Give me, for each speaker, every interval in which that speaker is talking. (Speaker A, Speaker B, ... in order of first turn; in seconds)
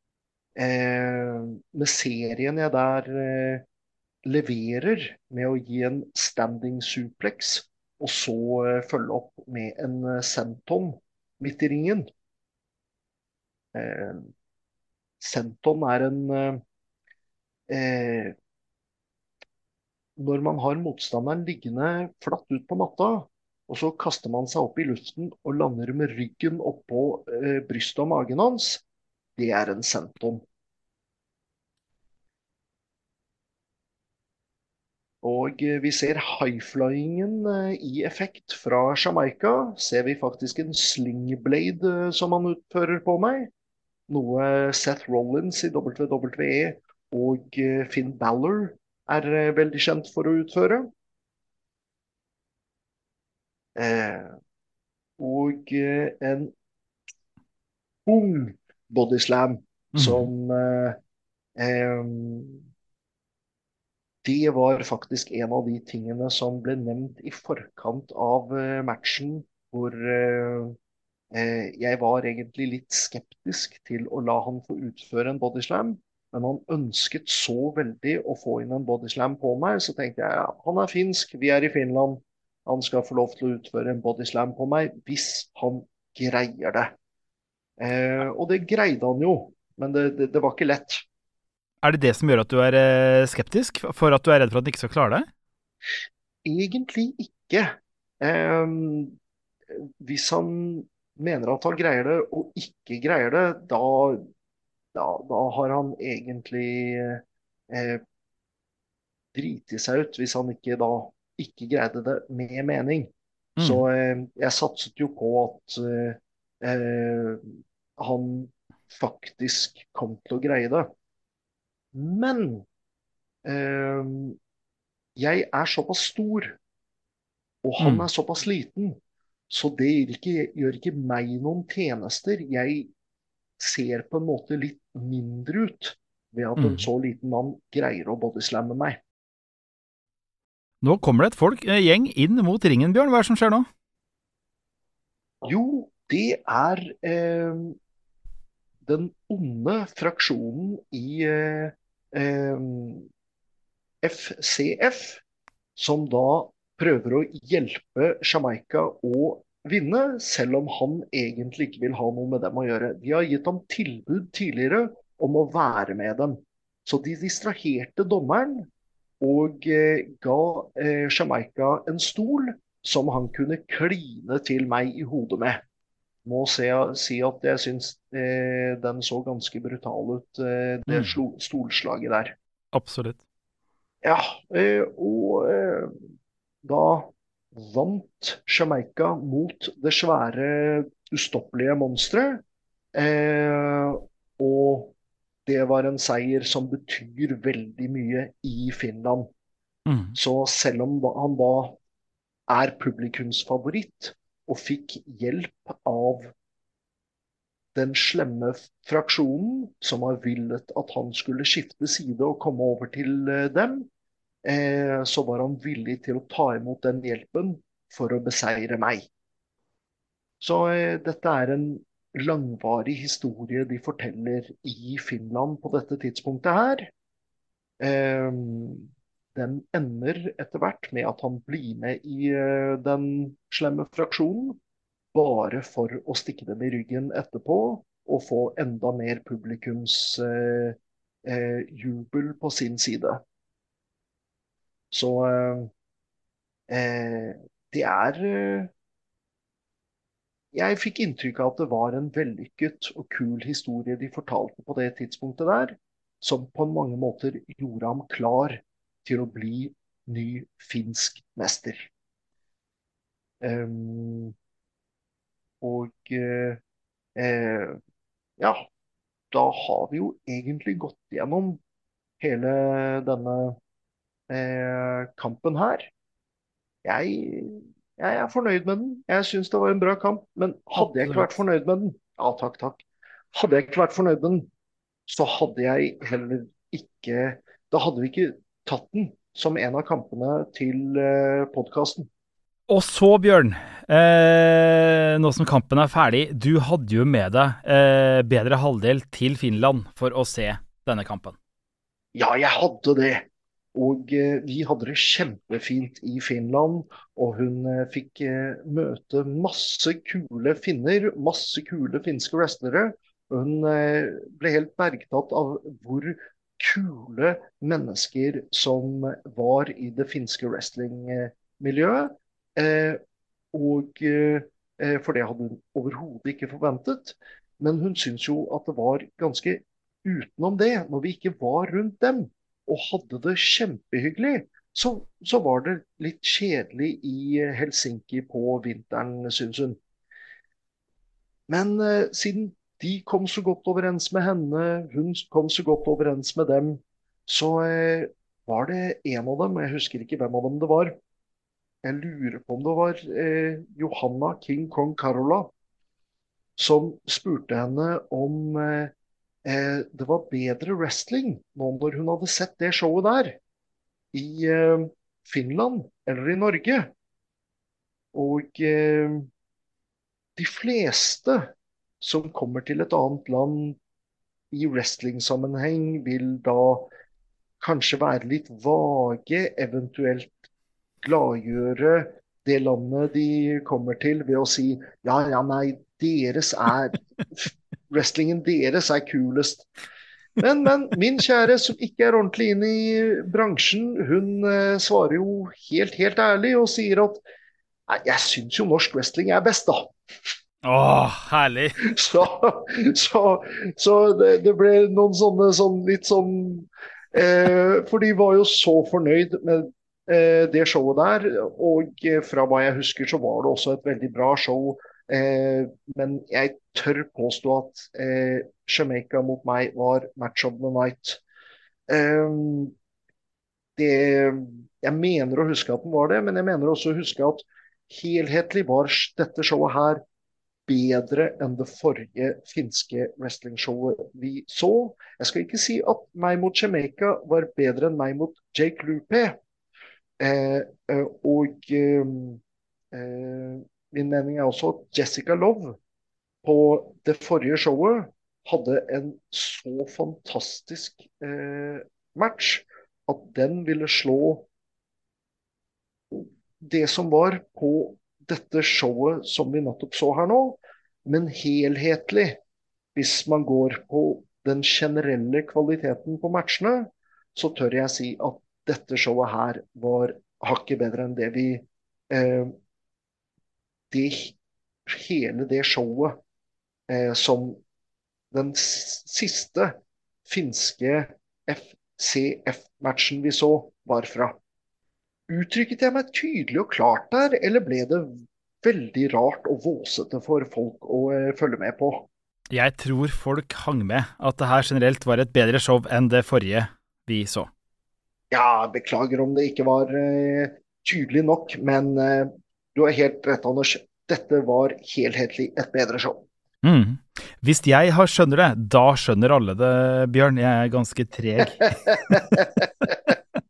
Speaker A: 0.6-3.6, 4.2-12.1, 13.7-14.3, 15.2-16.6, 17.7-18.3, 20.2-28.8, 29.4-30.4, 35.2-43.5, 44.1-50.9, 53.8-54.4, 55.2-56.5, 58.0-61.0, 61.5-62.6, 64.2-70.8, 71.3-86.9, 87.8-91.0, 96.4-99.2, 99.7-104.2, 104.9-108.0, 109.3-120.9, 121.9-122.7, 123.4-124.4, 125.2-126.6, 127.6-128.9, 129.5-132.9, 133.6-139.0, 145.4-147.8, 148.8-153.1, 154.0-155.2, 155.8-168.7, 169.2-175.6, 176.2-182.3, 184.0-185.9, 186.6-194.9, 195.4-199.3, 200.1-201.8, 202.5-206.3, 207.7-213.9, 214.4-219.1, 220.4-226.9, 227.8-234.6, 235.1-243.2, 244.9-245.7, 246.7-248.7, 250.5-261.9, 263.4-264.3, 265.6-266.6, 267.1-267.8, 268.4-268.7, 269.3-271.6, 272.2-273.6, 274.3-275.9, 276.8-284.5, 285.1-292.1, 302.1-323.0, 323.5-339.8, 341.5-350.9, 351.8-355.5, 356.6-358.9, 359.4-363.4, 364.1-366.9, 368.1-369.3, 370.4-373.8, 374.5-376.9, 377.6-380.3, 381.0-389.7, 390.4-397.2, 397.9-399.9, 401.8-421.2, 421.9-422.7, 423.8-430.0, 430.7-439.4, 440.2-442.4, 442.9-445.8, 446.4-454.5, 456.1-462.4, 462.9-472.5, 473.9-476.2, 476.9-477.6, 478.3-484.4, 485.3-492.1, 498.3-506.2, 511.6-513.1
Speaker B: 59.9-60.3, 91.8-95.3, 113.6-113.8, 127.8-128.1, 136.6-136.9, 140.8-143.7, 180.9-181.2, 182.7-183.2, 199.8-200.2, 280.8-281.3, 292.7-301.4, 400.6-401.8, 492.5-497.5, 506.6-512.9